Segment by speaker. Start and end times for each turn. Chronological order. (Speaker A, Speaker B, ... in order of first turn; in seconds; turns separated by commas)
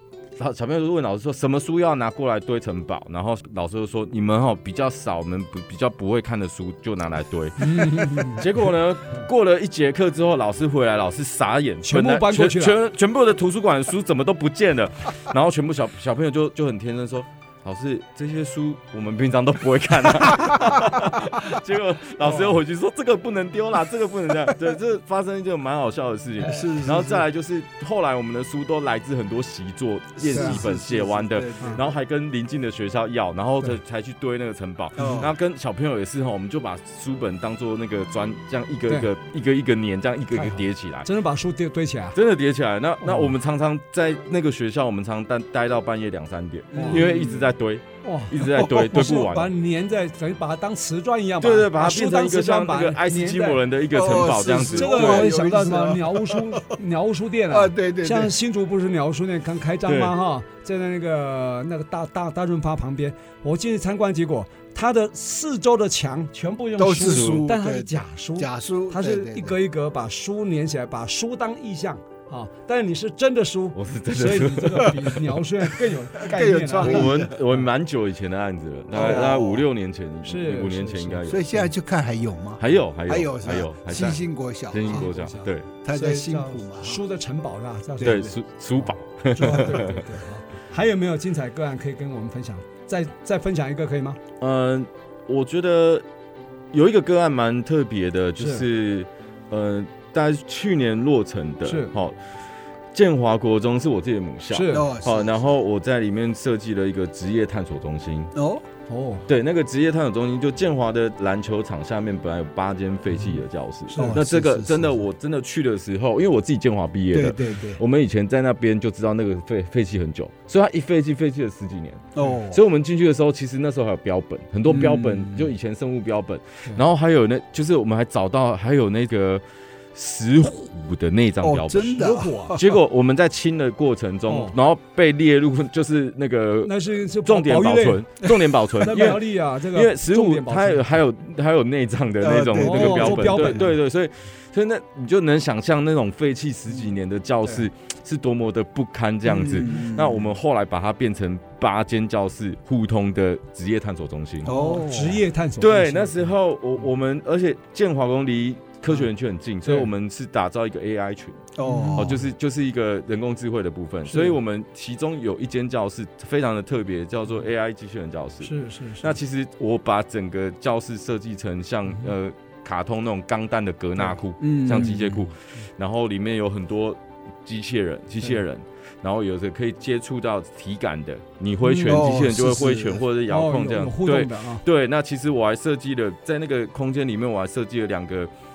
Speaker A: 0.4-41.1, Speaker B: 7.6-8.4, Speaker B: 11.8-12.8, Speaker C: 26.4-27.2, Speaker C: 30.2-31.9, Speaker B: 30.3-30.6, Speaker C: 35.0-35.3, Speaker B: 35.0-35.2, Speaker B: 40.3-42.1, Speaker A: 42.1-49.5, Speaker B: 43.0-43.3, Speaker C: 46.7-47.3, Speaker B: 46.7-47.2, Speaker B: 48.0-53.6, Speaker A: 51.4-55.3, Speaker C: 53.9-56.6, Speaker B: 54.7-77.1, Speaker C: 57.5-58.3, Speaker A: 59.9-60.1, Speaker C: 66.8-69.6, Speaker A: 67.0-67.4, Speaker A: 73.7-75.4, Speaker C: 76.2-77.3, Speaker A: 76.8-81.4, Speaker C: 78.9-79.6, Speaker B: 80.2-81.6, Speaker C: 81.2-85.1, Speaker A: 82.6-85.7, Speaker B: 84.8-88.3, Speaker C: 85.8-87.0, Speaker C: 88.0-88.3, Speaker A: 88.0-90.1, Speaker B: 89.3-94.2, Speaker A: 94.4-96.0, Speaker A: 96.7-102.2, Speaker B: 98.4-98.6, Speaker B: 101.6-101.9, Speaker A: 102.9-108.3, Speaker B: 104.5-104.9, Speaker C: 104.7-105.5, Speaker C: 108.3-108.6, Speaker B: 108.9-109.2, Speaker A: 109.3-129.4, Speaker B: 113.9-114.2, Speaker C: 114.0-115.0, Speaker C: 117.1-117.8, Speaker C: 122.1-122.6, Speaker C: 124.7-125.5, Speaker A: 129.9-154.5, Speaker C: 131.4-132.7, Speaker B: 131.9-132.6, Speaker B: 134.3-134.5, Speaker B: 136.6-138.0, Speaker B: 138.8-140.8, Speaker C: 142.2-143.7, Speaker B: 142.6-143.7, Speaker C: 149.2-150.3, Speaker C: 154.4-155.2, Speaker B: 154.5-156.3, Speaker A: 155.6-188.3, Speaker C: 161.6-162.2, Speaker B: 161.6-162.2, Speaker B: 164.1-164.3, Speaker B: 168.4-169.1, Speaker C: 174.4-175.1, Speaker B: 174.7-175.0, Speaker B: 181.6-182.2, Speaker C: 181.8-183.0, Speaker B: 183.3-184.6